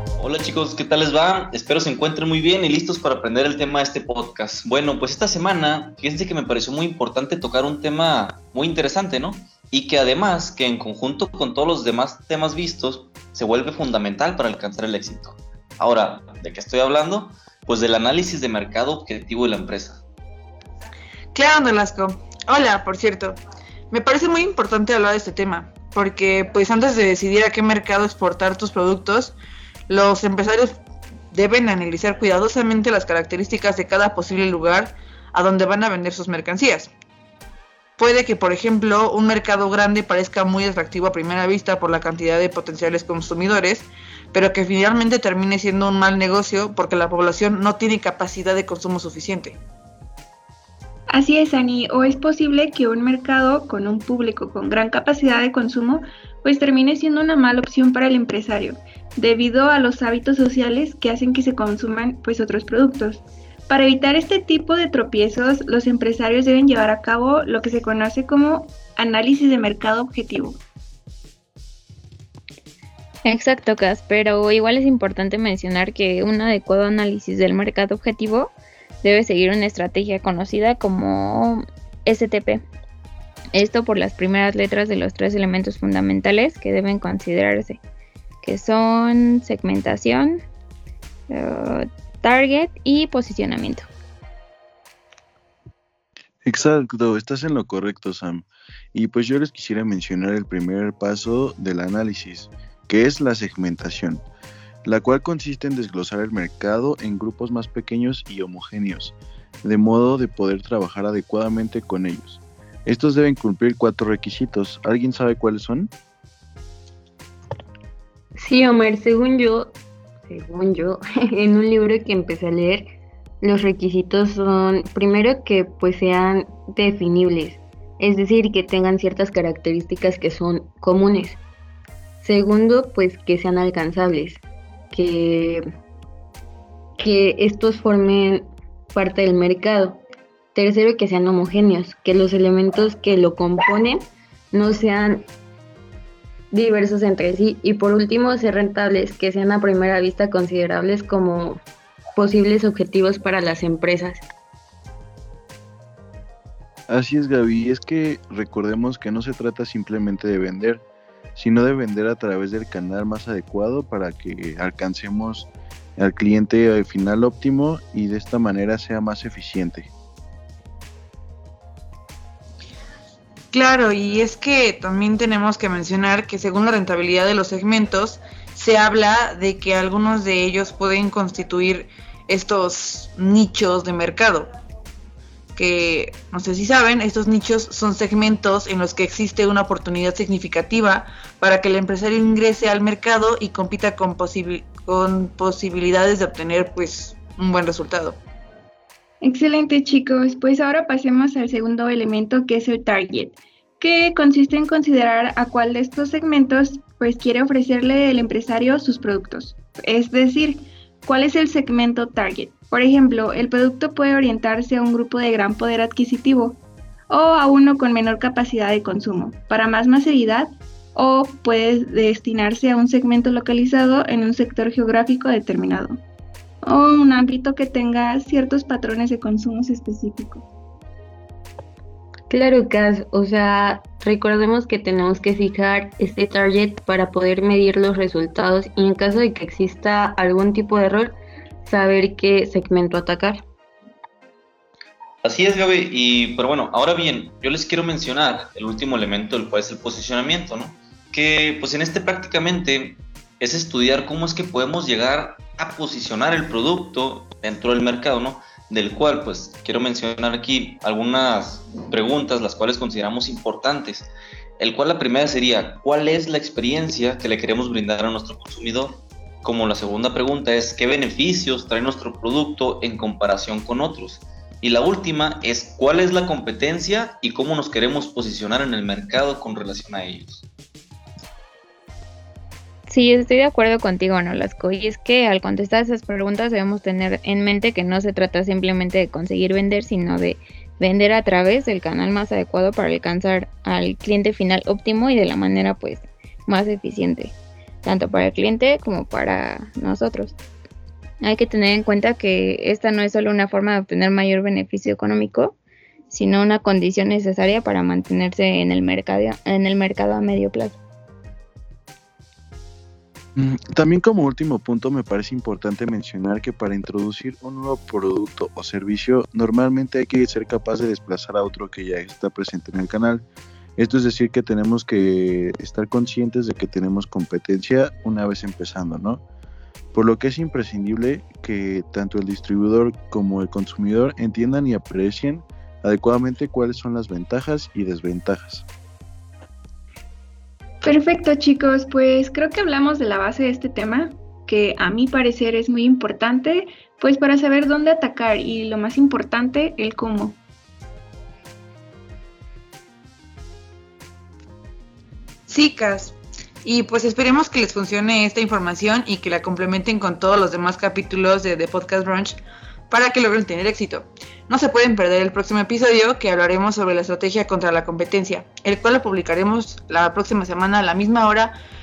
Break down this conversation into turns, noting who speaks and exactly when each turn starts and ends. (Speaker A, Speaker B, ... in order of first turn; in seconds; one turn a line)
Speaker A: 0.2-20.0
Speaker B: 21.3-23.4
Speaker B: 23.9-29.4
Speaker B: 29.9-30.8
Speaker B: 31.3-36.9
Speaker B: 38.0-49.6
Speaker C: 51.1-70.6
Speaker D: 73.2-82.7
Speaker D: 83.5-87.8
Speaker D: 88.4-90.4
Speaker D: 91.3-93.9
Speaker E: 96.4-104.2
Speaker E: 104.8-115.9
Speaker F: 118.4-119.8
Speaker F: 120.3-122.9
Speaker F: 123.4-131.4
Speaker F: 132.2-134.4
Speaker F: 134.9-135.6
Speaker F: 137.0-140.0
Speaker F: 140.5-145.3
Speaker F: 146.5-151.6
Speaker F: 152.2-154.2
Speaker E: 156.9-160.8
Speaker E: 161.3-169.9
Speaker B: 173.5-184.5
Speaker B: 185.6-198.2
Speaker C: 199.2-226.0
Speaker C: 226.6-230.4
Speaker F: 232.3-243.4
Speaker A: 245.2-280.5
Speaker D: 282.9-300.4
Speaker D: 301.2-305.6
Speaker D: 306.1-310.8
Speaker E: 313.4-323.2
Speaker E: 323.8-329.2
Speaker E: 329.9-338.6
Speaker C: 340.8-350.4
Speaker B: 355.5-371.6